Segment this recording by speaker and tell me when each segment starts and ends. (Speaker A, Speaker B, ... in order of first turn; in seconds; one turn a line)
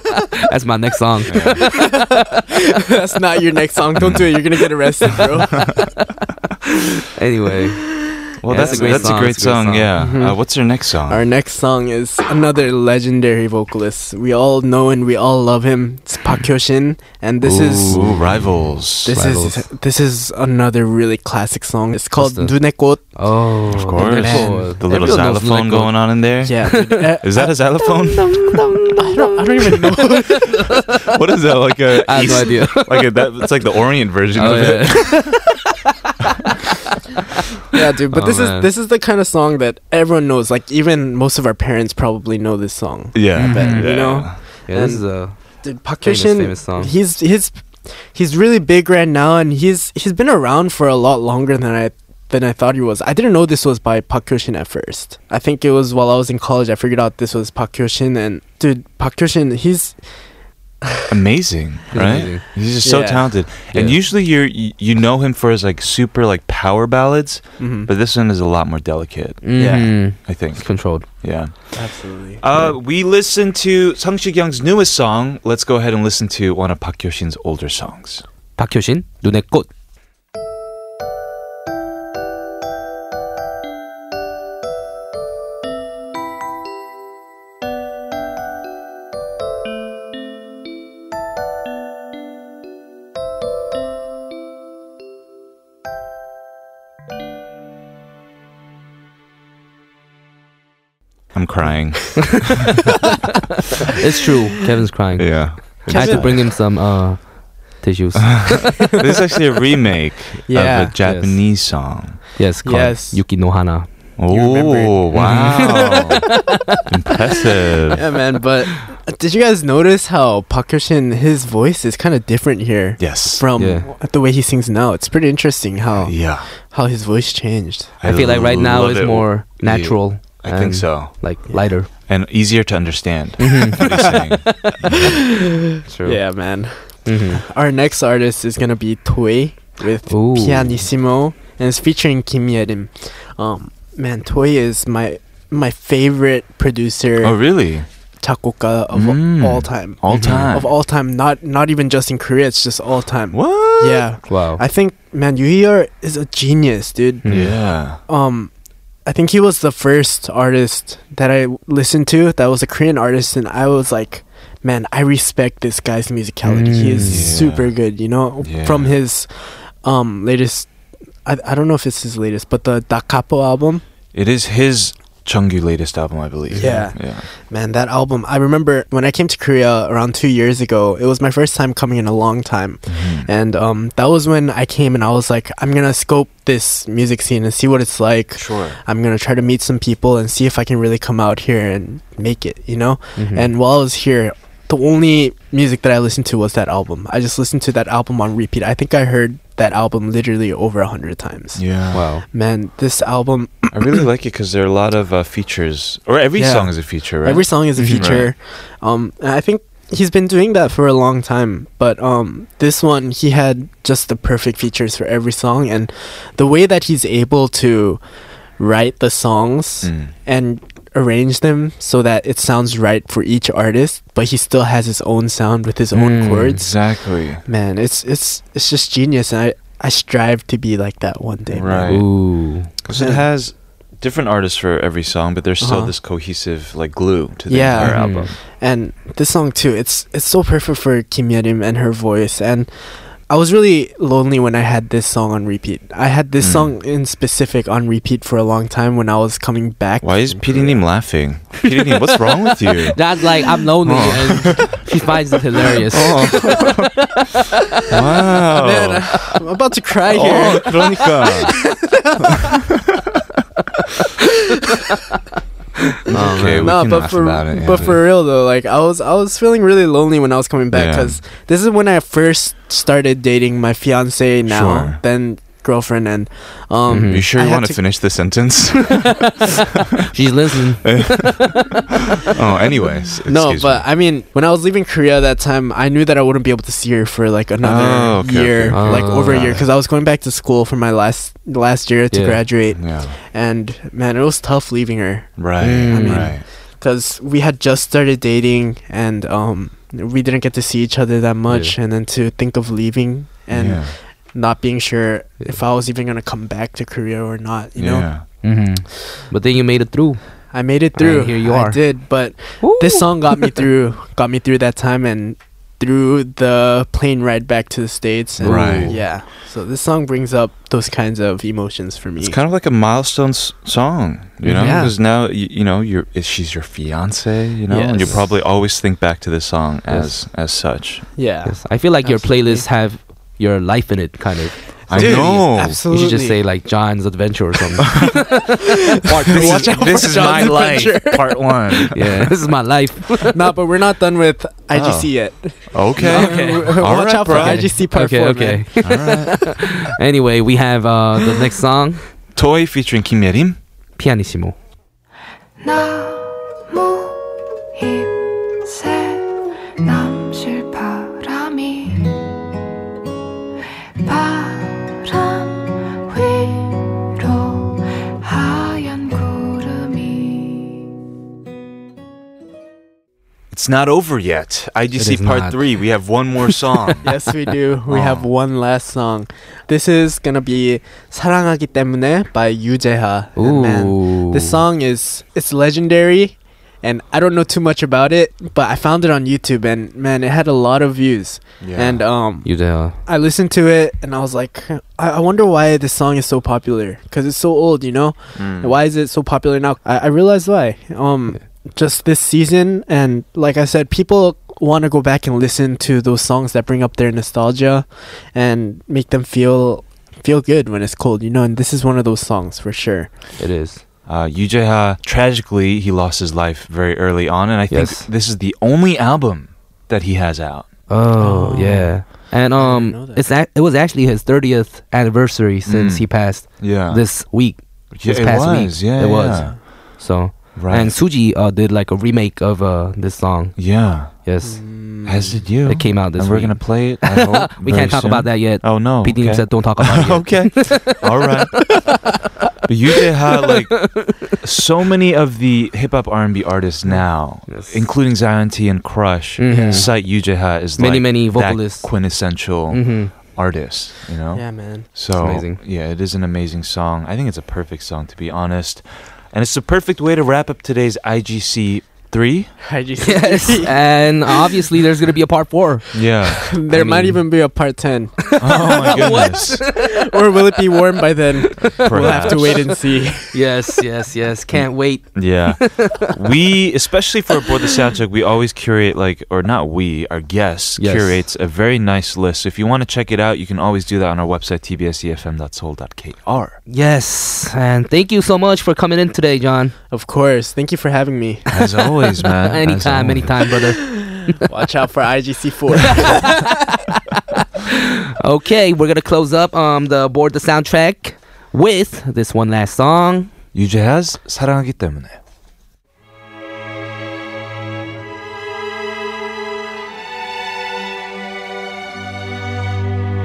Speaker A: 0.5-1.8
Speaker B: 1.3-1.6
Speaker C: 1.6-5.8
Speaker B: 4.0-4.4
Speaker A: 7.2-7.9
Speaker B: 8.4-11.3
Speaker A: 8.5-9.9
Speaker C: 8.5-9.2
Speaker C: 10.0-10.4
Speaker C: 11.1-18.3
Speaker A: 17.4-18.6
Speaker B: 17.9-19.2
Speaker C: 19.1-23.2
Speaker A: 19.1-19.6
Speaker A: 22.2-22.6
Speaker A: 23.1-26.1
Speaker B: 23.7-28.6
Speaker C: 23.9-25.1
Speaker C: 26.4-27.6
Speaker A: 26.7-27.1
Speaker A: 27.9-31.0
Speaker C: 29.0-30.6
Speaker B: 31.1-35.5
Speaker A: 31.9-33.3
Speaker A: 34.4-35.5
Speaker C: 34.4-34.7
Speaker C: 37.7-60.0
Speaker A: 38.1-38.7
Speaker B: 43.1-44.4
Speaker A: 43.4-44.1
Speaker A: 44.7-45.4
Speaker A: 46.0-46.9
Speaker B: 61.1-69.4
Speaker A: 61.9-62.5
Speaker C: 62.8-63.3
Speaker A: 63.7-64.0
Speaker C: 67.6-67.9
Speaker A: 69.4-71.1
Speaker C: 69.5-70.0
Speaker B: 70.2-70.7
Speaker B: 71.2-71.7
Speaker C: 71.7-72.5
Speaker B: 72.4-78.2
Speaker A: 78.6-79.7
Speaker B: 101.3-102.7
Speaker A: 104.0-108.7
Speaker B: 105.2-106.4
Speaker C: 105.9-106.5
Speaker B: 108.4-112.2
Speaker C: 110.5-111.0
Speaker A: 111.0-111.6
Speaker A: 112.4-113.9
Speaker C: 112.6-113.2
Speaker B: 114.2-118.0
Speaker C: 114.3-116.0
Speaker A: 115.1-116.8
Speaker C: 117.9-127.9
Speaker B: 123.0-123.5
Speaker A: 123.6-123.9
Speaker B: 126.0-126.5
Speaker B: 128.0-131.1
Speaker A: 128.0-131.9
Speaker B: 132.1-135.2
Speaker A: 133.4-133.8
Speaker C: 135.1-147.4
Speaker A: 135.9-136.2
Speaker A: 137.1-137.4
Speaker A: 140.1-140.8
Speaker B: 147.2-147.9
Speaker C: 148.2-157.5
Speaker B: 148.9-150.7
Speaker A: 150.1-150.5
Speaker B: 153.3-154.2
Speaker A: 154.3-154.6
Speaker A: 157.2-157.5
Speaker B: 157.3-158.0
Speaker C: 158.1-158.5
Speaker C: 159.1-170.7
Speaker A: 166.4-167.3
Speaker B: 167.0-167.8
Speaker B: 168.4-168.9
Speaker C: 171.2-173.8
Speaker B: 174.1-177.3
Speaker A: 176.5-176.8
Speaker C: 176.5-201.6
Speaker B: 182.9-183.3
Speaker B: 188.3-188.8
Speaker A: 193.2-193.5
Speaker B: 201.6-202.1
Speaker A: 201.9-202.2
Speaker C: 202.3-204.0
Speaker B: 203.7-208.3
Speaker C: 206.3-218.0
Speaker A: 207.8-208.1
Speaker C: 218.6-226.8
Speaker B: 219.8-220.1
Speaker A: 225.9-226.6
Speaker B: 226.6-227.4
Speaker C: 227.5-232.0
Speaker B: 231.5-232.1
Speaker A: 231.9-232.7
Speaker B: 232.8-238.4
Speaker C: 232.9-233.2
Speaker C: 235.6-235.9
Speaker C: 237.5-242.7
Speaker A: 237.8-238.3
Speaker C: 243.3-250.8
Speaker B: 246.4-246.8
Speaker B: 250.0-253.0
Speaker A: 252.9-257.2
Speaker B: 253.8-254.8
Speaker B: 255.9-256.9
Speaker B: 257.9-259.2
Speaker C: 258.4-262.5
Speaker B: 260.1-261.6
Speaker A: 260.4-260.8
Speaker A: 266.1-266.8
Speaker B: 266.1-268.0
Speaker C: 266.3-277.8
Speaker B: 270.7-271.2
Speaker B: 274.5-275.0
Speaker A: 276.9-277.2
Speaker B: 277.1-279.5
Speaker A: 280.1-281.7
Speaker B: 280.8-283.9
Speaker C: 283.3-308.1
Speaker B: 287.6-289.7
Speaker A: 288.7-289.5
Speaker A: 292.1-292.4
Speaker B: 292.7-293.2
Speaker B: 295.4-296.4
Speaker A: 295.6-296.3
Speaker A: 301.5-301.7
Speaker B: 303.5-304.0
Speaker B: 307.8-308.2
Speaker A: 308.4-310.2
Speaker C: 310.5-322.4
Speaker A: 311.0-311.8
Speaker A: 312.6-313.6
Speaker A: 318.4-319.0
Speaker B: 318.4-319.0
Speaker B: 322.2-331.1
Speaker A: 324.4-324.9
Speaker C: 324.5-324.9
Speaker C: 327.7-328.3
Speaker A: 329.9-330.1
Speaker C: 331.2-332.7
Speaker A: 331.5-338.2
Speaker C: 334.9-336.4
Speaker B: 334.9-335.8
Speaker A: 339.1-340.2
Speaker C: 339.1-341.9
Speaker B: 339.1-342.2
Speaker A: 341.9-343.4
Speaker C: 343.2-349.1
Speaker B: 344.7-345.1
Speaker B: 345.7-347.7
Speaker A: 346.0-346.7
Speaker A: 347.3-352.0
Speaker B: 348.8-349.5
Speaker B: 352.4-353.6
Speaker A: 354.0-354.6
Speaker D: 355.6-357.2
Speaker D: 357.8-362.1
Speaker D: 364.0-370.8
Speaker B: 373.5-377.1
Speaker A: 375.0-375.6
Speaker C: 377.0-392.5
Speaker B: 377.9-378.3
Speaker A: 383.4-384.6
Speaker B: 391.6-392.0
Speaker A: 392.4-393.0
Speaker C: 393.1-413.1
Speaker B: 398.4-398.8
Speaker A: 413.4-413.8
Speaker B: 414.1-420.7
Speaker A: 417.7-418.1
Speaker A: 420.9-433.6
Speaker C: 421.2-423.2
Speaker B: 425.7-427.1
Speaker B: 427.9-429.6
Speaker C: 429.3-429.6
Speaker B: 430.6-430.9
Speaker B: 433.6-434.1
Speaker A: 434.1-434.6
Speaker C: 434.4-435.4
Speaker B: 435.1-441.8
Speaker A: 435.7-441.0
Speaker B: 442.7-462.5
Speaker A: 443.3-444.3
Speaker A: 447.5-447.8
Speaker A: 449.4-449.9
Speaker C: 449.5-449.9
Speaker A: 450.8-451.9
Speaker A: 452.7-453.1
Speaker C: 454.3-454.9
Speaker A: 455.2-455.6
Speaker C: 462.6-464.6
Speaker A: 463.0-466.1
Speaker B: 465.9-466.4
Speaker C: 466.4-473.4
Speaker A: 466.7-467.2
Speaker A: 468.3-469.9
Speaker B: 468.4-469.6
Speaker A: 471.6-472.6
Speaker B: 471.8-472.7
Speaker A: 473.3-476.1
Speaker B: 474.5-486.6
Speaker A: 480.8-481.2
Speaker A: 486.7-489.7
Speaker C: 489.9-491.5
Speaker B: 491.5-493.3
Speaker A: 492.4-493.9
Speaker C: 493.6-496.6
Speaker A: 496.0-503.3
Speaker B: 503.5-505.2